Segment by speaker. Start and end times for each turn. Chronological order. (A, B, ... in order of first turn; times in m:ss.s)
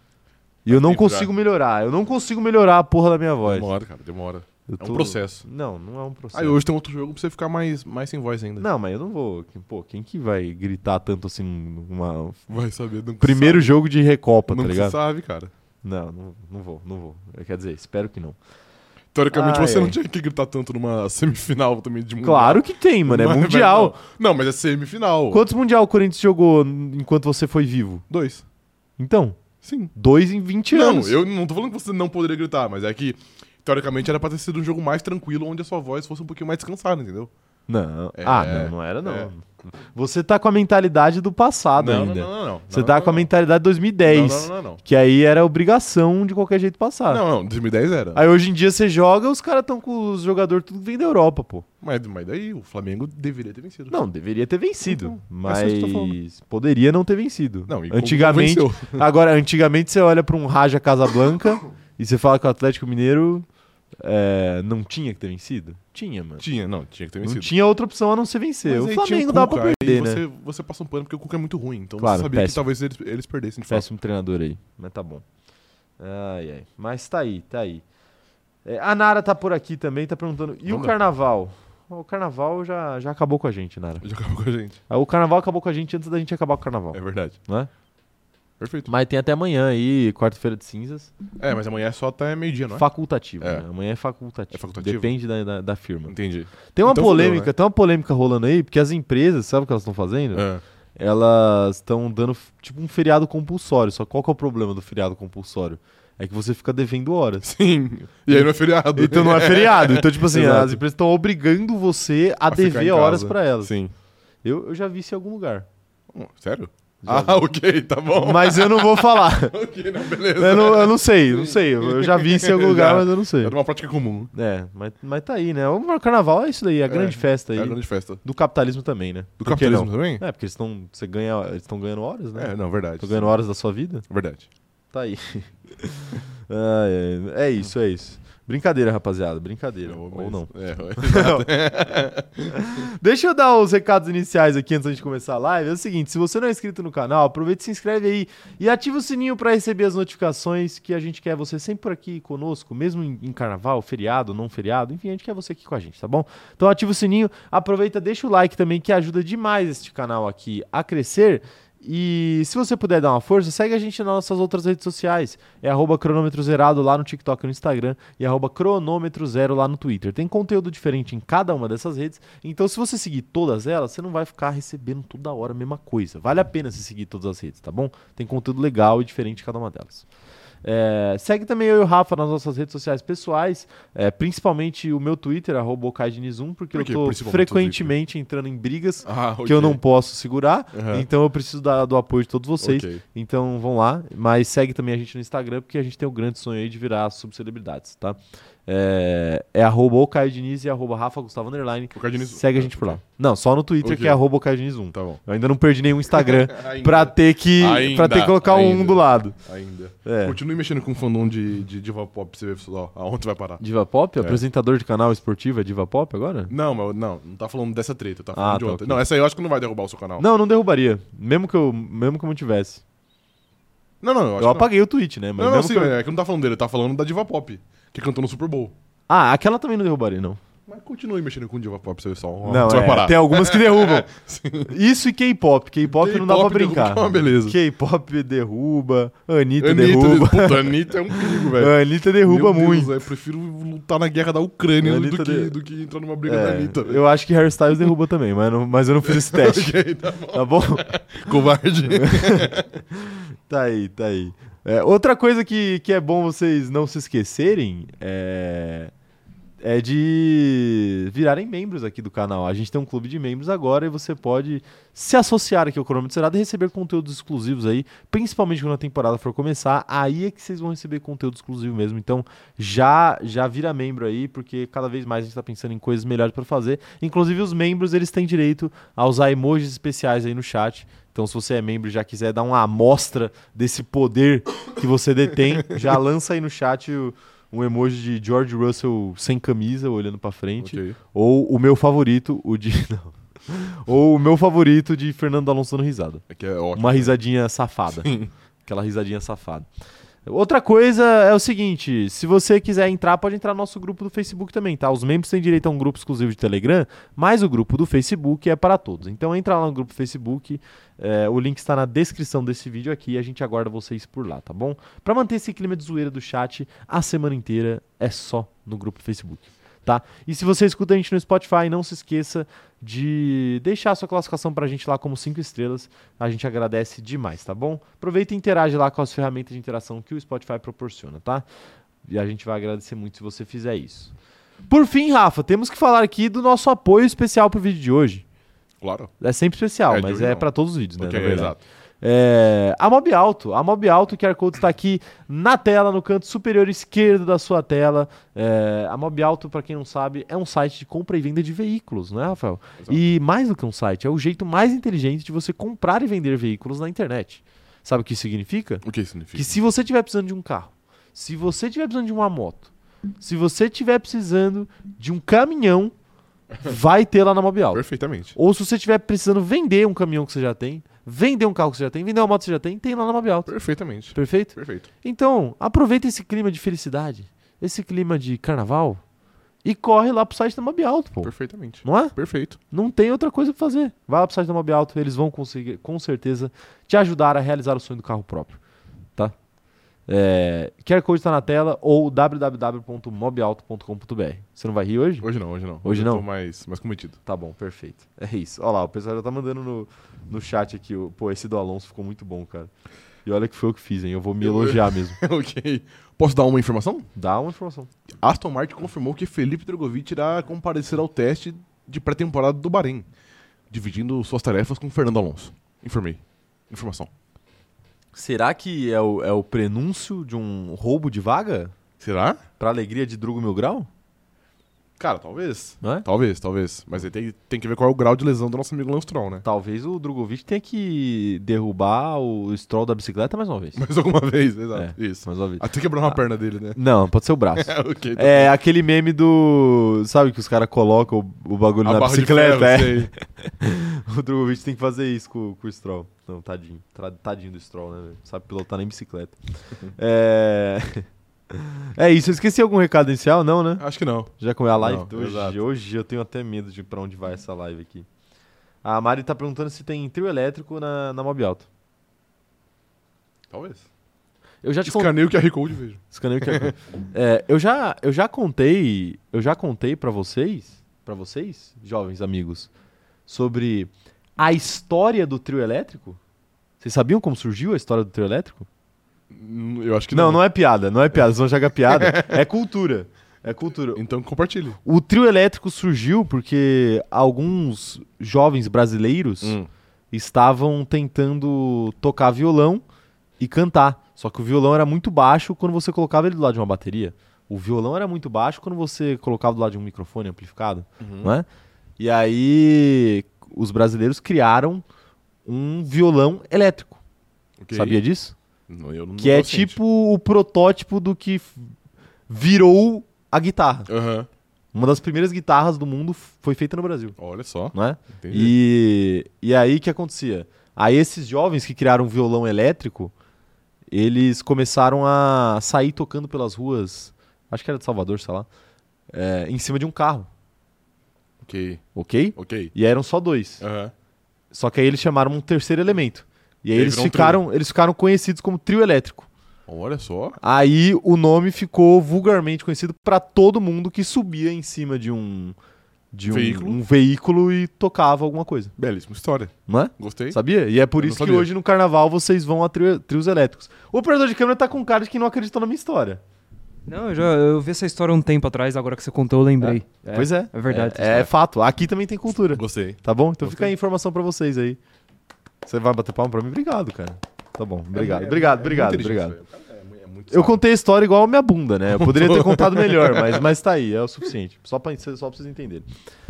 0:00.6-0:03.7 A
0:00.7-0:01.3 B
0:03.4-0:05.4 B
0:04.7-0:06.6 A
0:06.3-0:08.7 B
0:08.6-0:12.4 A
0:12.5-0:13.7 B
0:13.2-0:15.0 A
0:14.5-0:15.5 B
0:15.8-0:18.4 A
0:19.1-0:25.4 B
0:19.3-0:20.0 A
0:22.2-0:24.0 A
0:25.3-0:28.0 A
0:28.1-0:28.4 B
0:29.0-0:29.4 A
0:29.6-0:29.9 B
0:29.9-0:31.2 A
0:30.7-0:37.3 B
0:37.7-0:47.2 A
0:38.2-0:39.3 B
0:41.8-0:43.3 B
0:44.0-0:44.8 B
0:47.1-0:48.2 B
0:48.1-0:51.6 A
0:51.8-0:54.0 B
0:53.9-1:03.4 A
0:54.8-0:56.2 B
0:57.7-0:59.0 B
1:04.0-1:06.4 A
1:06.4-1:07.5 B
1:07.2-1:10.2 A
1:08.6-1:13.8 B
1:12.0-1:12.6 A
1:13.7-1:15.2 A
1:16.0-1:17.8 A
1:18.6-1:24.0 A
1:20.6-1:20.9 B
1:24.0-1:24.8 B
1:24.9-1:27.7 A
1:26.9-1:27.4 B
1:28.6-1:28.9 B
1:28.8-1:31.1 A
1:31.4-1:32.9 B
1:32.7-1:36.1 A
1:34.5-1:35.1 B
1:36.1-1:37.5 B
1:36.7-1:47.5 A
1:40.3-1:40.6 B
1:47.4-1:50.8 B
1:48.3-1:53.7 A
1:52.5-1:53.9 B
1:54.4-1:55.6 A
1:56.1-2:04.3 B
1:57.0-1:57.4 A
1:58.2-1:59.5 A
2:00.3-2:03.6 A
2:04.3-2:14.0 A
2:06.9-2:08.2 B
2:09.4-2:10.2 B
2:12.4-2:13.3 B
2:14.1-2:14.4 B
2:14.9-2:21.5 A
2:19.8-2:22.6 B
2:22.5-3:00.0 A
3:00.6-3:29.3 A
3:06.7-3:07.9 B
3:09.0-3:09.8 B
3:10.7-3:11.1 B
3:12.6-3:13.0 B
3:21.9-3:23.0 B
3:23.8-3:24.2 B
3:24.9-3:25.2 B
3:26.1-3:33.6 B
3:30.0-3:30.4 A
3:33.6-3:36.5 A
3:34.2-3:34.4 B
3:36.5-3:40.2 B
3:38.3-3:39.0 A
3:40.2-3:42.8 A
3:44.0-3:44.7 B
3:44.4-3:46.0 A
3:45.4-3:48.7 B
3:49.1-3:50.4 A
3:50.7-3:54.7 B
3:52.4-3:54.1 A
3:54.6-4:02.9 A
3:55.9-3:57.6 B
3:59.6-4:07.0 B
4:04.8-4:05.5 A
4:06.2-4:10.9 A
4:09.0-4:12.7 B
4:12.0-4:18.9 A
4:19.6-4:56.2 A
4:50.6-4:51.0 B
4:56.3-4:57.2 B
4:56.7-4:58.1 A
4:57.9-4:58.3 B
4:58.6-4:59.6 A
5:00.2-5:31.4 A
5:32.0-5:34.1 A
5:34.7-5:38.2 A
5:38.8-5:39.1 B
5:39.2-6:05.9 A
5:39.9-5:40.5 B
5:41.0-5:41.6 B
5:58.8-5:59.5 B
6:06.6-6:07.8 A
6:07.7-6:08.4 B
6:08.3-6:13.5 A
6:13.5-6:14.9 B
6:14.1-6:19.0 A
6:19.6-6:21.3 A
6:21.2-6:22.6 B
6:21.8-6:22.1 A
6:22.7-6:28.6 A
6:30.1-6:35.3 A
6:35.2-6:37.2 B
6:35.8-6:36.2 A
6:37.2-6:42.7 A
6:43.2-6:45.2 A
6:44.4-6:47.1 B
6:47.1-6:47.9 A
6:48.2-6:53.1 B
6:53.7-6:57.1 B
6:58.1-7:01.7 A
7:02.0-7:02.4 B
7:02.6-7:03.9 A
7:05.0-7:09.4 B
7:09.4-7:13.8 A
7:13.8-7:16.8 B
7:14.7-7:16.1 A
7:16.7-7:29.4 A
7:17.6-7:18.5 B
7:21.8-7:23.1 B
7:30.0-7:38.1 A
7:33.8-7:35.6 B
7:38.8-7:41.7 A
7:43.5-7:43.8 B
7:44.6-7:45.1 A
7:44.8-7:46.7 B
7:46.1-7:52.7 A
7:53.3-7:56.2 A
7:56.8-7:58.6 A
7:59.3-8:00.4 B
8:00.1-8:04.0 A
8:01.9-8:02.4 B
8:03.9-8:04.8 B
8:04.8-8:09.6 A
8:09.4-8:09.7 B
8:10.1-8:12.8 A
8:13.4-8:21.4 A
8:21.0-8:21.3 B
8:22.0-8:24.8 A
8:25.4-8:27.0 A
8:27.6-8:28.0 B
8:27.7-8:28.3 A
8:28.7-8:29.8 B
8:29.2-8:31.7 A
8:32.3-8:33.9 A
8:33.9-8:34.3 B
8:34.7-8:37.2 A
8:37.2-8:38.6 B
8:37.7-8:43.1 A
8:43.9-8:48.5 A
8:49.1-8:50.3 A
8:51.4-8:51.8 B
8:51.9-8:53.6 A
8:52.4-8:52.7 B
8:53.6-8:53.9 B
8:54.5-8:59.3 A
8:56.7-8:57.4 B
8:59.7-9:00.4 B
9:00.4-9:05.6 A
9:06.1-9:08.7 A
9:06.3-9:06.8 B
9:08.8-9:10.4 B
9:09.7-9:16.2 A
9:11.0-9:11.5 B
9:16.9-9:21.3 C
9:19.6-9:24.8 A
9:22.5-9:23.7 B
9:25.6-9:29.4 A
9:27.9-9:30.6 B
9:30.3-9:35.8 A
9:31.9-9:33.5 B